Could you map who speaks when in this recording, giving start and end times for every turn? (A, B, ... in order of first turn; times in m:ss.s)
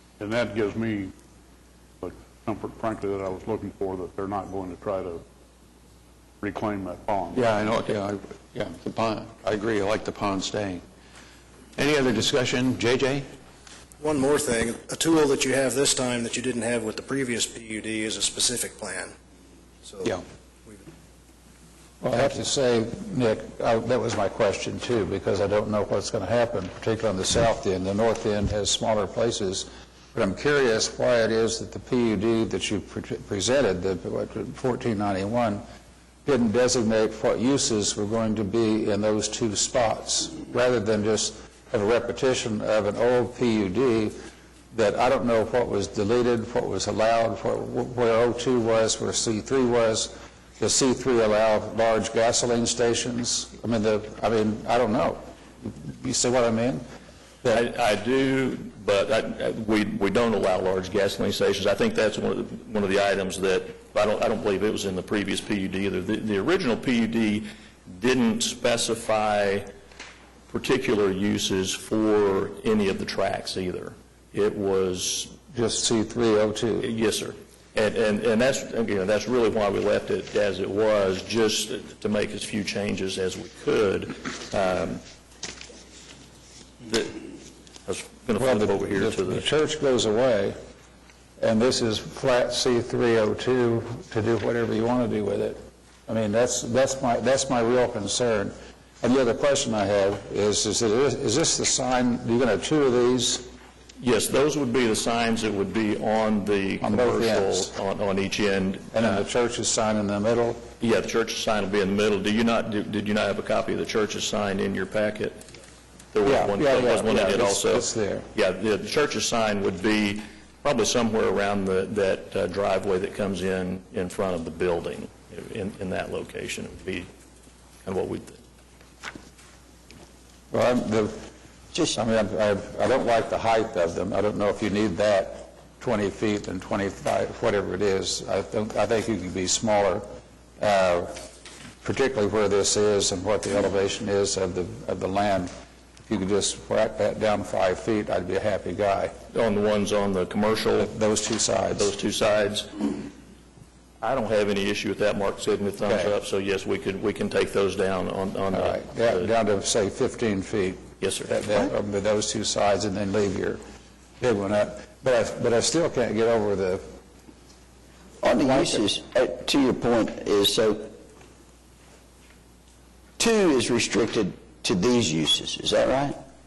0:00.2-0:01.1 A
0:02.0-0:05.2 A
0:06.4-0:07.4 A
0:07.3-0:10.8 B
0:11.8-0:13.3 B
0:14.0-0:19.2 C
0:19.8-0:20.8 C
0:22.0-0:35.6 D
0:36.2-0:44.2 D
0:44.7-0:56.8 D
0:57.5-1:09.7 E
1:10.5-1:15.4 E
1:15.5-1:16.9 D
1:16.8-1:25.0 E
1:26.8-1:27.3 E
1:27.9-1:29.5 E
1:28.4-1:30.6 D
1:31.4-1:43.4 D
1:44.0-1:49.2 E
1:46.8-1:47.7 D
1:48.9-1:50.6 D
1:50.8-1:55.4 E
1:56.1-2:07.1 E
1:56.2-1:58.3 D
2:07.8-2:08.4 E
2:10.5-2:11.2 D
2:11.9-2:20.0 D
2:20.6-2:21.2 D
2:21.8-2:25.5 D
2:26.0-2:29.1 D
2:29.3-2:30.9 E
2:30.8-2:31.9 D
2:31.8-2:33.0 E
2:34.0-2:39.3 E
2:35.8-2:36.2 D
2:38.5-2:43.6 D
2:41.0-2:41.3 E
2:44.2-2:46.8 D
2:48.2-2:50.9 F
2:48.4-2:48.8 D
2:53.2-2:56.2 F